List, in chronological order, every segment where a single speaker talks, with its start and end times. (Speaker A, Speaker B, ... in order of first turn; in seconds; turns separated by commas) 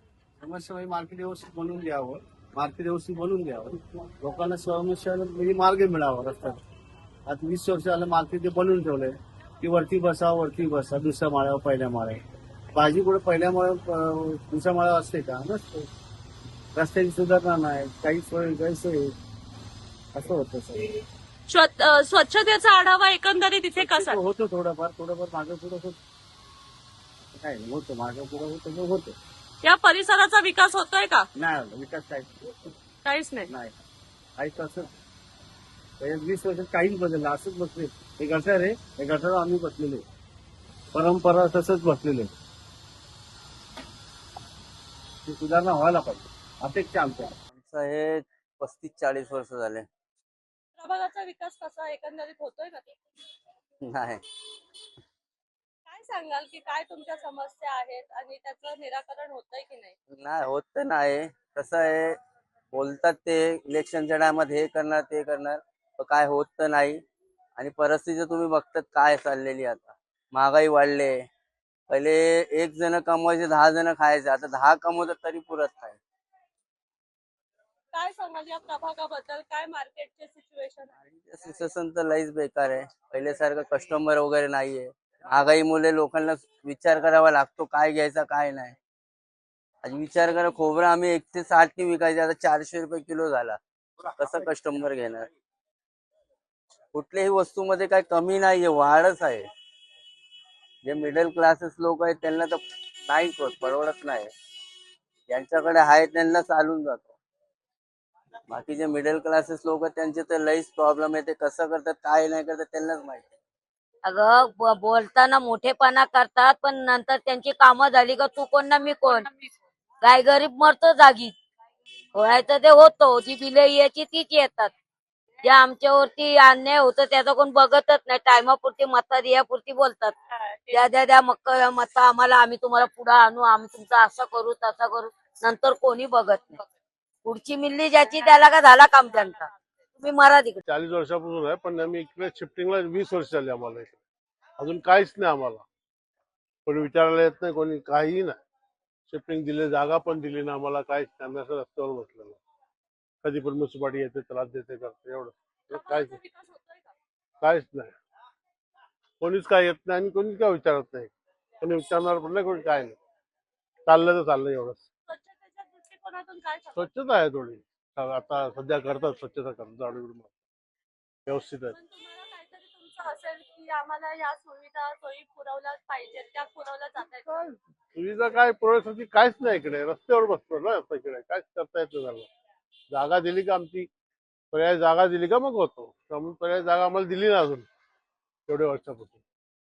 Speaker A: 0.4-6.6, Speaker A: 7.3-12.2, Speaker A: 12.7-15.9, Speaker A: 16.8-19.1, Speaker A: 20.1-21.0, Speaker B: 21.5-24.2, Speaker A: 23.8-26.0, Speaker A: 27.3-29.1, Speaker B: 29.6-31.3, Speaker A: 31.4-32.5, Speaker B: 33.0-33.5, Speaker A: 33.5-33.7, Speaker A: 34.4-34.9, Speaker A: 36.0-40.0, Speaker A: 40.9-42.3, Speaker A: 45.2-47.3, Speaker C: 47.5-49.9, Speaker B: 50.8-53.0, Speaker C: 53.8-54.2, Speaker B: 55.9-59.9, Speaker C: 60.1-62.2, Speaker C: 62.7-67.0, Speaker C: 67.6-71.3, Speaker C: 71.9-76.0, Speaker B: 77.9-80.9, Speaker C: 81.1-88.8, Speaker C: 89.8-95.3, Speaker C: 96.9-99.5, Speaker C: 100.8-104.3, Speaker C: 105.3-107.1, Speaker C: 108.5-113.3, Speaker D: 114.0-119.3, Speaker D: 120.0-121.3, Speaker D: 122.1-124.7, Speaker D: 125.4-130.2, Speaker D: 130.7-136.6, Speaker D: 137.2-140.6, Speaker E: 140.7-144.0, Speaker E: 144.6-145.6, Speaker E: 146.7-148.4, Speaker E: 149.1-152.4, Speaker E: 153.2-156.2, Speaker B: 155.7-156.9, Speaker E: 157.4-157.9, Speaker E: 159.2-163.0, Speaker E: 163.8-164.8, Speaker B: 165.1-166.9, Speaker E: 166.8-170.3, Speaker E: 171.2-171.7, Speaker B: 171.7-177.3, Speaker E: 177.3-182.3, Speaker E: 182.9-183.9, Speaker E: 184.5-187.7, Speaker E: 188.5-189.2